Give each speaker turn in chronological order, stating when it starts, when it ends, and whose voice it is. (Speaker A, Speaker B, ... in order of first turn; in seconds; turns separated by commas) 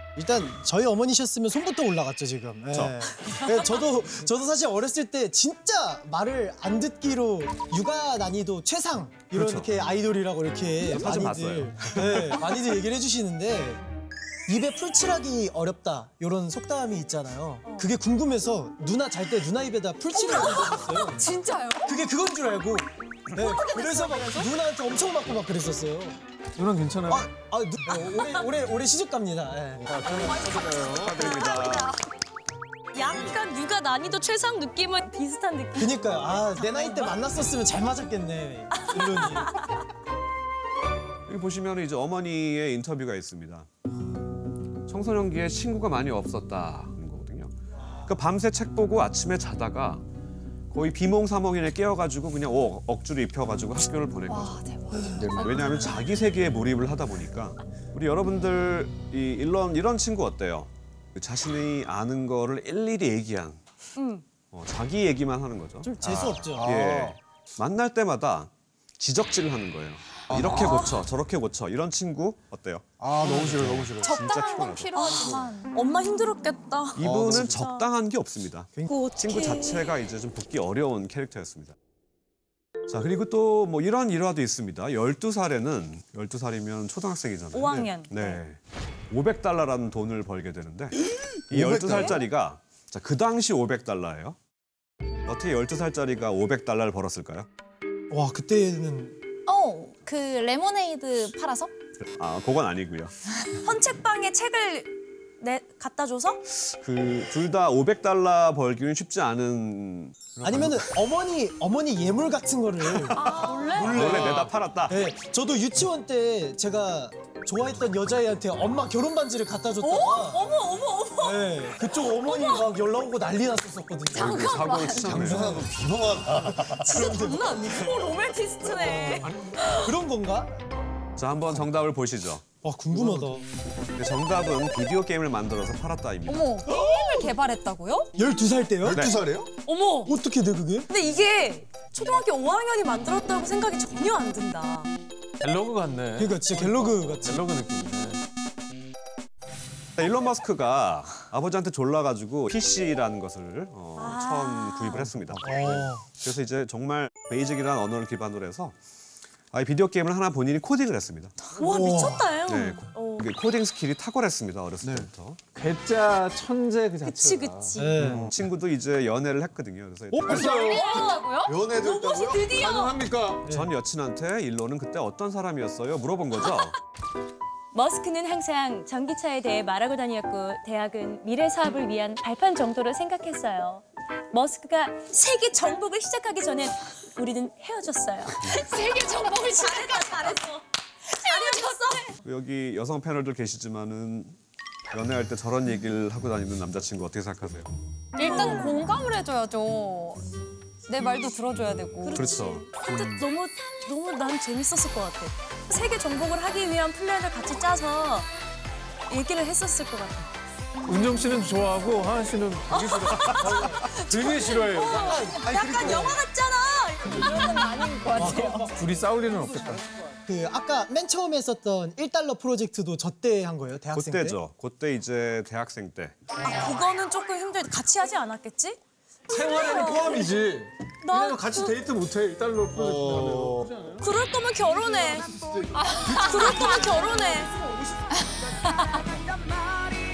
Speaker A: 0.2-13.8, Speaker B: 9.3-9.7, Speaker B: 10.9-12.4, Speaker A: 14.5-21.2, Speaker C: 20.1-22.0, Speaker A: 21.9-26.2, Speaker D: 23.3-24.5, Speaker E: 26.6-27.3, Speaker A: 27.1-30.3, Speaker D: 30.1-32.0, Speaker F: 30.4-30.7, Speaker B: 30.8-32.0, Speaker D: 32.9-37.1, Speaker A: 35.8-39.6, Speaker D: 38.8-39.7, Speaker B: 41.3-43.7, Speaker B: 44.9-47.5, Speaker B: 48.1-50.0, Speaker B: 50.7-54.6, Speaker C: 54.3-56.0, Speaker F: 55.2-55.5, Speaker B: 55.3-63.6, Speaker D: 64.0-64.2, Speaker B: 64.5-65.9, Speaker A: 65.8-66.7, Speaker F: 66.0-67.2, Speaker B: 66.6-75.4, Speaker F: 70.3-70.9, Speaker D: 70.5-70.9, Speaker F: 73.0-74.2, Speaker C: 74.0-75.8, Speaker D: 74.9-77.9, Speaker B: 77.0-81.8, Speaker F: 77.0-77.6, Speaker D: 78.9-79.9, Speaker B: 82.9-91.0, Speaker D: 87.5-88.4, Speaker F: 91.5-92.2, Speaker B: 91.5-94.4, Speaker B: 95.3-97.5, Speaker A: 98.1-99.2, Speaker C: 99.5-101.7, Speaker B: 102.0-103.1, Speaker D: 103.6-106.4, Speaker B: 106.5-110.8, Speaker A: 110.4-120.4, Speaker C: 113.1-114.2, Speaker D: 113.3-113.9, Speaker B: 113.7-115.0, Speaker D: 119.8-121.5, Speaker A: 121.2-125.7, Speaker D: 122.2-122.7, Speaker C: 124.1-125.3, Speaker B: 124.1-125.6, Speaker F: 124.9-127.0, Speaker A: 126.2-127.6, Speaker D: 126.8-129.9, Speaker A: 128.7-130.5, Speaker B: 131.2-132.4, Speaker A: 132.6-133.4, Speaker B: 134.0-136.5, Speaker C: 136.3-138.1, Speaker A: 138.2-139.1, Speaker F: 138.8-139.5, Speaker D: 139.7-140.2, Speaker A: 140.1-140.9, Speaker D: 140.9-144.9, Speaker E: 145.4-148.2, Speaker A: 146.2-147.4, Speaker B: 150.0-158.8, Speaker D: 154.0-155.0, Speaker F: 155.1-155.8, Speaker A: 155.4-156.0, Speaker B: 159.5-161.3, Speaker A: 161.6-162.3, Speaker D: 161.6-163.3, Speaker B: 162.5-165.4, Speaker F: 164.8-165.1, Speaker E: 165.6-167.8, Speaker D: 167.1-168.0, Speaker A: 167.8-168.3, Speaker F: 168.0-168.3, Speaker B: 168.1-170.6, Speaker E: 170.2-170.8, Speaker C: 170.3-171.6, Speaker D: 170.7-173.0, Speaker F: 171.4-172.6, Speaker E: 172.5-173.4, Speaker B: 173.5-176.8, Speaker D: 177.7-192.1, Speaker C: 188.4-190.4, Speaker C: 191.2-192.0, Speaker B: 192.2-194.4, Speaker B: 194.9-197.7, Speaker C: 198.2-200.2, Speaker D: 198.2-198.9, Speaker C: 200.9-202.4, Speaker D: 202.0-208.3, Speaker B: 202.1-202.7, Speaker D: 209.1-210.3, Speaker E: 210.8-215.2, Speaker D: 212.7-217.6, Speaker A: 213.4-213.7, Speaker A: 214.9-216.2, Speaker F: 215.4-216.2, Speaker C: 217.1-218.8, Speaker A: 218.2-218.6, Speaker E: 218.7-219.8, Speaker A: 220.3-224.4, Speaker B: 223.9-226.2, Speaker D: 226.4-230.3, Speaker E: 229.3-234.1, Speaker D: 231.0-231.8, Speaker F: 232.7-233.7, Speaker D: 234.0-235.3, Speaker C: 235.7-237.0, Speaker D: 236.1-237.5, Speaker E: 236.6-237.3, Speaker C: 238.1-239.1